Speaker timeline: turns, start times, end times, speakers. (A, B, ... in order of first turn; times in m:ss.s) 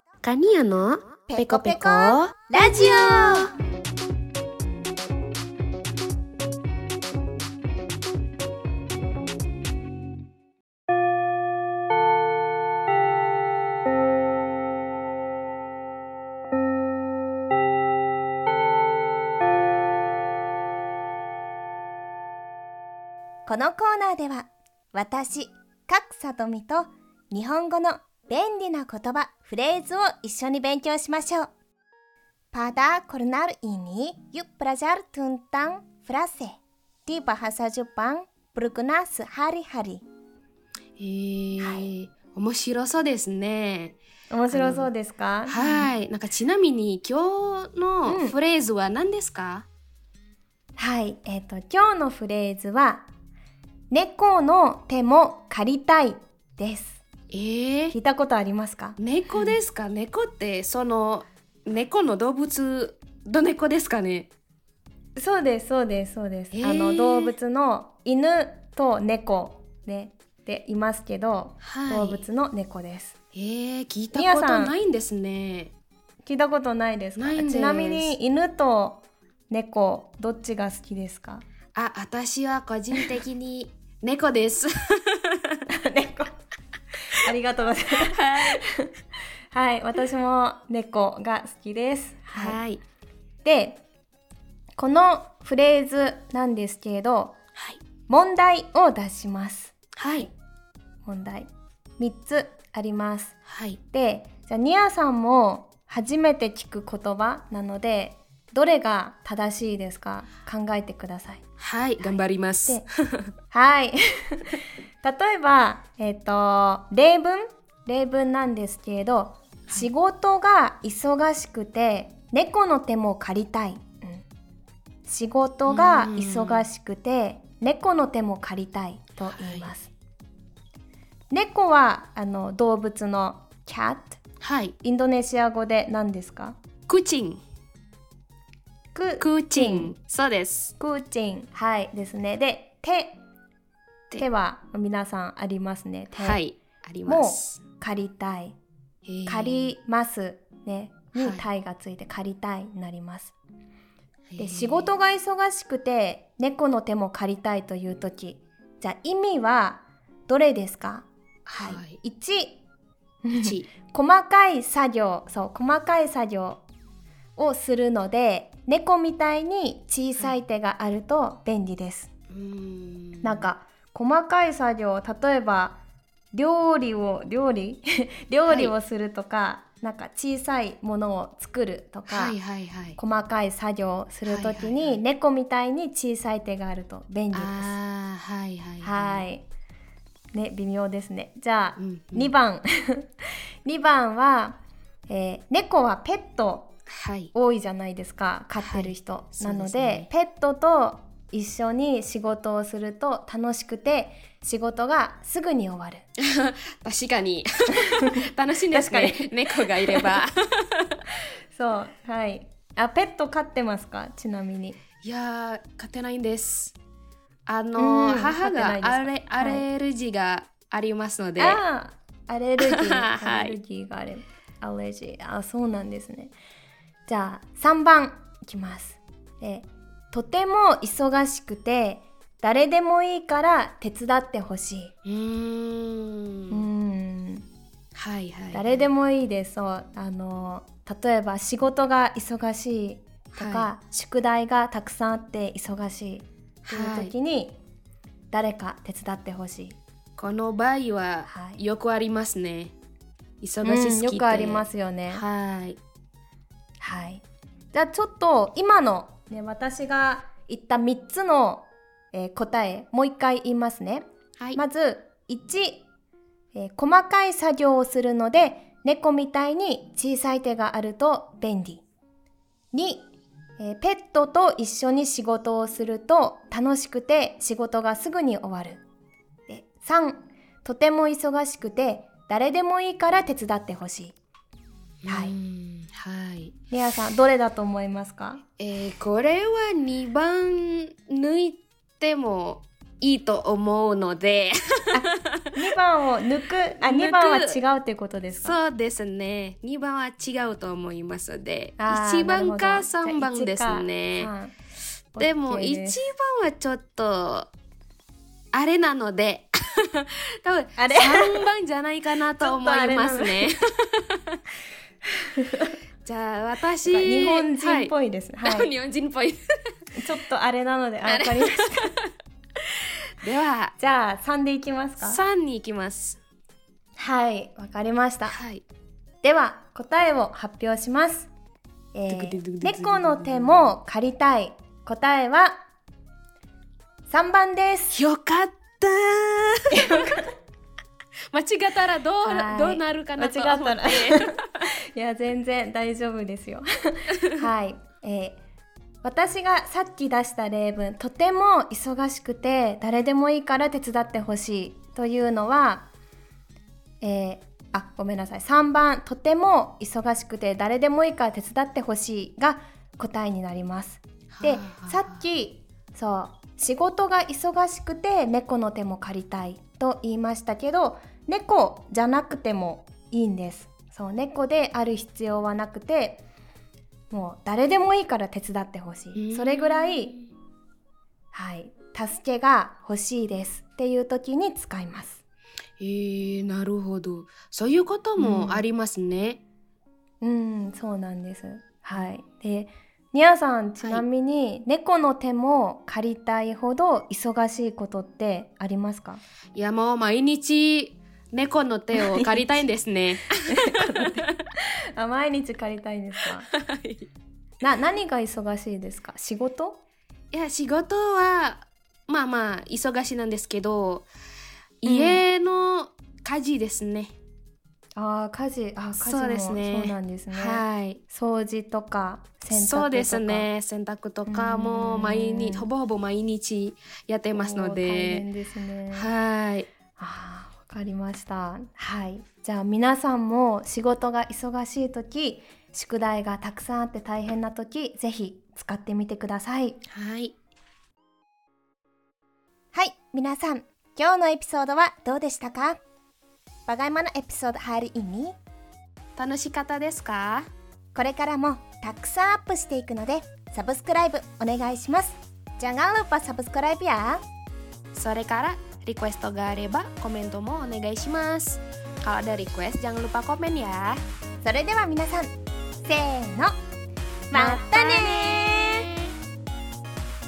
0:00.2-0:03.5 A
0:01.3-0:03.5 B
0:23.5-0:31.5 B
0:32.5-0:40.0 B
0:41.0-0:44.0 A
0:41.6-0:41.9 B
0:44.3-0:45.9 B
0:44.5-0:44.9 A
0:45.5-0:49.7 A
0:48.1-0:48.4 B
0:50.8-0:53.1 B
0:53.9-0:57.0 B
0:57.3-0:58.0 A
0:57.9-0:59.5 B
0:59.0-1:04.3 A
1:05.2-1:13.2 B
1:06.5-1:07.4 A
1:11.6-1:12.3 A
1:13.3-1:15.7 A
1:14.1-1:14.7 B
1:16.2-1:21.4 B
1:17.2-1:18.2 A
1:21.8-1:25.6 A
1:25.7-1:26.3 B
1:27.2-1:28.9 B
1:28.2-1:28.6 A
1:29.5-1:32.6 B
1:32.3-1:32.8 A
1:33.4-1:33.8 B
1:34.8-1:37.4 B
1:38.1-1:40.3 B
1:40.0-1:40.3 A
1:41.0-1:43.4 B
1:43.5-1:43.8 A
1:43.9-1:51.4 B
1:51.6-1:53.3 A
1:53.5-2:04.2 B
2:05.0-2:09.9 B
2:05.7-2:06.7 A
2:09.3-2:09.7 A
2:11.3-2:14.2 B
2:14.4-2:14.8 A
2:14.8-2:16.6 B
2:16.9-2:17.4 A
2:18.9-2:20.0 B
2:19.2-2:20.8 A
2:20.8-2:23.2 B
2:24.2-2:26.4 B
2:26.2-2:27.6 A
2:27.1-2:28.6 B
2:29.1-2:29.7 A
2:29.3-2:33.3 B
2:31.2-2:31.4 A
2:34.3-2:34.9 A
2:34.4-2:42.6 B
2:41.5-2:42.0 A
2:43.2-2:46.6 B
2:43.3-2:43.7 A
2:47.4-2:52.1 B
2:52.3-2:53.5 A
2:53.2-2:55.8 B
2:56.3-3:02.4 B
2:58.5-2:58.7 A
3:02.1-3:03.0 A
3:03.0-3:07.7 B
3:04.3-3:05.0 A
3:07.3-3:09.3 A
3:08.8-3:09.4 B
3:10.3-3:13.1 B
3:11.8-3:12.3 A
3:13.6-3:16.7 B
3:16.9-3:17.3 A
3:17.3-3:26.0 B
3:18.6-3:20.1 A
3:26.2-3:31.0 A
3:28.7-3:30.2 B
3:31.5-3:34.8 B
3:35.0-3:36.8 A
3:37.5-3:41.6 A
3:37.8-3:39.6 B
3:41.4-3:46.3 B
3:42.6-3:43.6 A
3:47.1-3:54.9 B
3:55.0-3:56.7 A
3:56.5-3:57.5 B
3:58.0-3:58.9 A
3:58.5-4:07.6 B
4:03.4-4:03.7 A
4:06.7-4:07.1 A
4:08.3-4:09.8 B
4:10.2-4:12.7 A
4:11.3-4:11.6 B
4:13.4-4:15.8 A
4:13.6-4:15.2 B
4:16.8-4:25.8 B
4:26.5-4:31.8 B
4:32.7-4:33.1 B
4:33.6-4:38.8 B
4:39.5-4:44.2 B
4:45.0-4:46.6 A
4:45.1-4:45.3 B
4:46.7-4:48.4 B
4:48.6-4:55.3 A
4:54.9-4:58.6 B
4:56.8-4:57.6 A
4:58.4-5:04.3 A
5:01.8-5:04.5 B
5:05.1-5:06.0 B
5:05.2-5:07.5 A
5:08.5-5:14.4 A
5:10.8-5:11.4 B
5:12.4-5:13.5 B
5:15.4-5:15.8 B
5:16.0-5:19.4 A
5:16.8-5:18.7 B
5:20.0-5:21.9 B
5:21.0-5:22.1 A
5:22.6-5:23.7 A
5:23.8-5:25.2 B
5:25.0-5:26.2 A
5:27.0-5:28.4 B
5:28.3-5:28.6 A
5:29.2-5:31.3 B
5:31.9-5:35.6 B
5:32.1-5:33.7 A
5:37.1-5:38.0 B
5:37.9-5:40.2 A
5:39.8-5:40.2 B
5:41.3-5:44.7 A
5:42.2-5:48.4 B
5:49.0-5:55.9 B
5:57.0-6:16.2 B
6:04.3-6:05.2 A
6:17.1-6:20.2 B
6:19.2-6:20.3 A
6:21.3-6:25.2 B
6:25.8-6:29.4 A
6:28.2-6:28.6 B
6:30.2-6:39.2 B
6:39.6-6:44.4 A
6:41.9-6:42.6 B
6:43.5-6:46.5 B
6:46.4-6:47.1 A
6:47.6-6:49.8 B
6:50.3-6:54.1 A
6:54.8-6:57.2 A
6:54.8-6:55.2 B
6:58.0-7:03.5 B
6:59.0-7:01.0 A
7:02.5-7:08.3 A
7:04.3-7:05.7 B
7:07.3-7:09.1 B
7:08.9-7:09.7 A
7:10.0-7:19.8 B
7:19.9-7:20.3 A
7:22.7-7:25.8 B
7:26.7-7:28.4 B
7:29.2-7:30.5 A
7:31.0-7:37.2 B
7:37.9-7:44.0 A
7:44.4-7:45.3 B
7:45.8-7:46.6 B
7:47.3-7:48.9 B
7:47.3-7:49.0 A